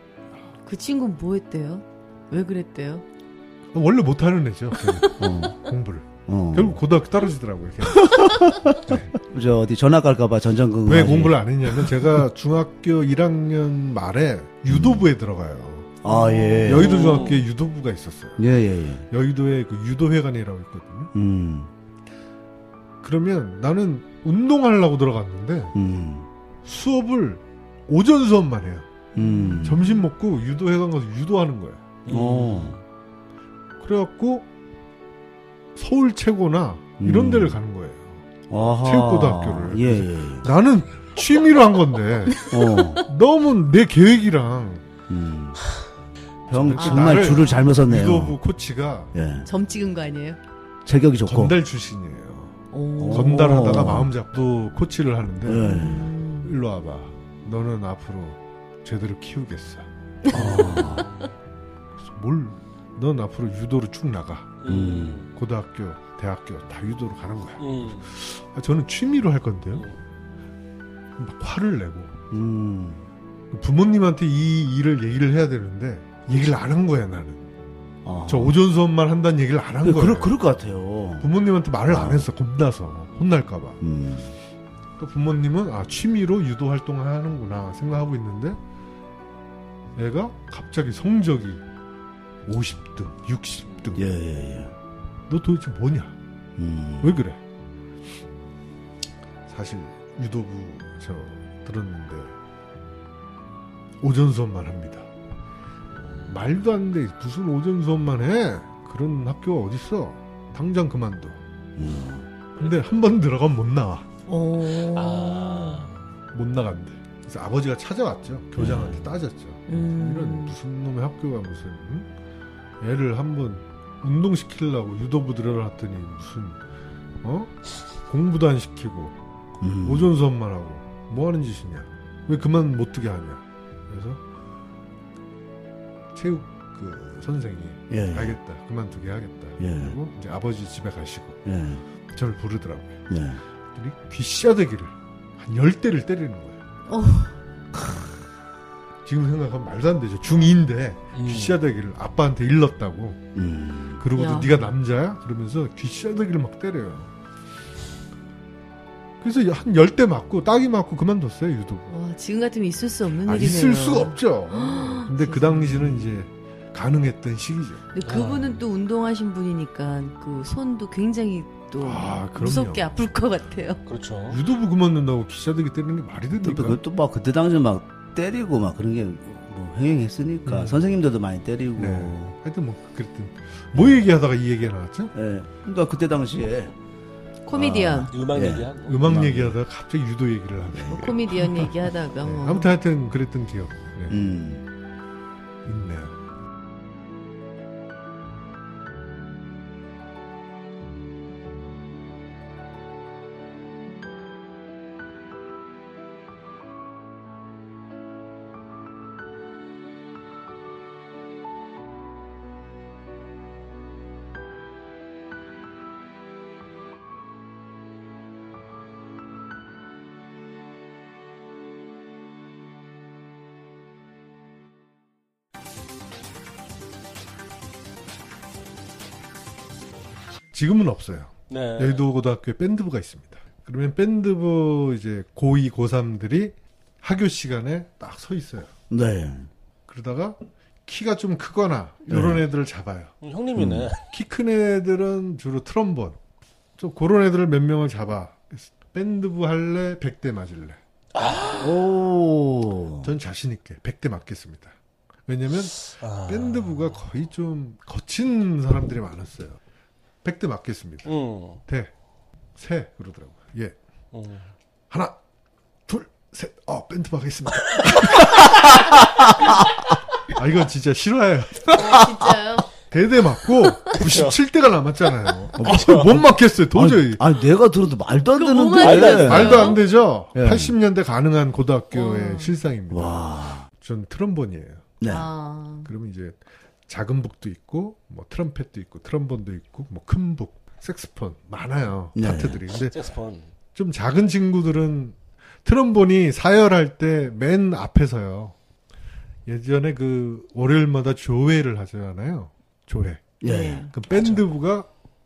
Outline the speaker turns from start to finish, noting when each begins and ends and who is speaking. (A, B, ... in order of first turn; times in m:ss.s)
0:00.6-0:03.0 A
0:03.7-0:09.2 B
0:05.2-0:05.6 C
0:06.3-0:06.8 C
0:08.0-0:12.0 C
0:10.8-0:16.0 B
0:14.7-0:15.1 C
0:16.0-0:17.3 C
0:16.1-0:16.7 A
0:16.6-0:18.4 B
0:16.8-0:17.4 D
0:18.4-0:19.1 C
0:19.1-0:21.1 B
0:21.1-0:21.7 C
0:23.0-0:25.7 B
0:25.7-0:26.3 C
0:26.6-0:28.9 B
0:29.1-0:29.9 C
0:29.5-0:31.9 B
0:32.0-0:32.8 D
0:32.1-0:32.8 C
0:33.8-0:34.5 B
0:35.8-0:38.2 B
0:37.0-0:37.6 C
0:38.5-0:40.5 C
0:38.8-0:44.8 B
0:42.4-0:43.0 C
0:45.1-0:45.6 C
0:46.5-0:48.4 C
0:46.5-0:49.1 B
0:46.8-0:47.5 A
0:49.1-0:49.5 C
0:49.4-0:50.4 A
0:50.8-0:51.6 C
0:51.2-0:52.6 B
0:52.7-0:53.6 A
0:53.0-0:54.1 C
0:53.1-1:00.8 B
0:55.4-0:56.1 C
0:55.6-0:56.6 A
1:00.3-1:01.1 C
1:00.6-1:01.2 D
1:02.0-1:04.6 B
1:04.6-1:05.3 D
1:04.6-1:05.2 C
1:05.3-1:09.9 B
1:07.6-1:08.0 D
1:11.2-1:12.2 B
1:12.3-1:13.0 C
1:13.5-1:17.5 B
1:18.0-1:18.6 C
1:18.3-1:20.3 B
1:19.8-1:21.3 C
1:21.2-1:23.8 B
1:21.9-1:22.3 C
1:23.8-1:24.3 C
1:25.0-1:28.6 B
1:30.0-1:31.6 B
1:32.4-1:34.1 B
1:33.9-1:34.7 C
1:35.3-1:36.1 B
1:36.6-1:37.2 C
1:37.0-1:37.4 B
1:39.5-1:42.3 B
1:44.0-1:45.1 B
1:46.3-1:51.4 B
1:51.8-1:52.3 C
1:52.6-1:54.1 B
1:54.3-1:55.8 A
1:54.9-1:55.9 D
1:56.3-2:02.1 B
1:58.6-1:59.1 C
1:59.7-2:00.6 A
2:02.8-2:06.6 B
2:07.2-2:09.1 B
2:09.6-2:10.1 C
2:09.8-2:14.2 B
2:16.1-2:21.4 B
2:17.9-2:18.4 C
2:19.6-2:20.0 C
2:21.4-2:21.8 C
2:22.1-2:23.0 B
2:23.1-2:23.4 C
2:23.7-2:26.6 B
2:26.9-2:27.3 A
2:29.0-2:33.2 B
2:31.1-2:31.6 D
2:33.3-2:34.0 C
2:34.0-2:37.1 B
2:34.1-2:34.6 A
2:39.2-2:41.9 B
2:41.9-2:46.1 A
2:43.2-2:47.8 B
2:47.9-2:53.8 A
2:48.0-2:48.6 D
2:51.8-2:52.9 B
2:53.9-2:54.4 D
2:54.3-2:56.8 B
2:56.4-3:02.3 C
3:00.5-3:00.8 B
3:01.8-3:05.1 B
3:03.7-3:04.0 C
3:05.1-3:06.8 C
3:07.4-3:08.1 A
3:07.5-3:09.6 C
3:08.1-3:09.0 D
3:08.8-3:11.7 B
3:10.7-3:11.1 C
3:10.9-3:12.7 A
3:12.2-3:14.2 B
3:14.1-3:14.7 C
3:15.6-3:16.1 B
3:50.5-3:58.7 B
3:51.5-3:52.0 D
3:58.9-3:59.5 C
3:59.9-4:03.1 B
4:02.1-4:02.4 C
4:03.2-4:04.0 D
4:03.6-4:03.9 C
4:04.1-4:06.2 B
4:06.8-4:10.8 B
4:11.1-4:11.7 D
4:11.6-4:13.1 C
4:13.0-4:14.7 B
4:15.2-4:19.6 B
4:16.0-4:16.8 D
4:20.2-4:21.1 B
4:21.0-4:21.6 D
4:21.6-4:21.9 B
4:22.6-4:23.8 B
4:24.1-4:24.5 D
4:24.9-4:25.2 B
4:25.9-4:28.5 B
4:28.3-4:29.7 C
4:30.3-4:31.7 B
4:31.7-4:32.7 A
4:32.9-4:37.2 B
4:33.9-4:34.4 D
4:35.6-4:36.0 D
4:36.1-4:39.8 C
4:38.3-4:39.8 A
4:38.8-4:39.7 D
4:39.0-4:44.9 B
4:40.3-4:40.8 C
4:41.9-4:42.5 A
4:42.9-4:43.7 C
4:45.0-4:45.3 C
4:45.0-4:45.9 A
4:45.8-4:53.0 B
4:52.1-4:52.6 C
4:52.8-4:53.5 D
4:53.7-4:58.5 B
4:59.5-5:04.9 B
5:03.4-5:03.9 C
5:03.4-5:03.9 A
5:04.1-5:04.4 D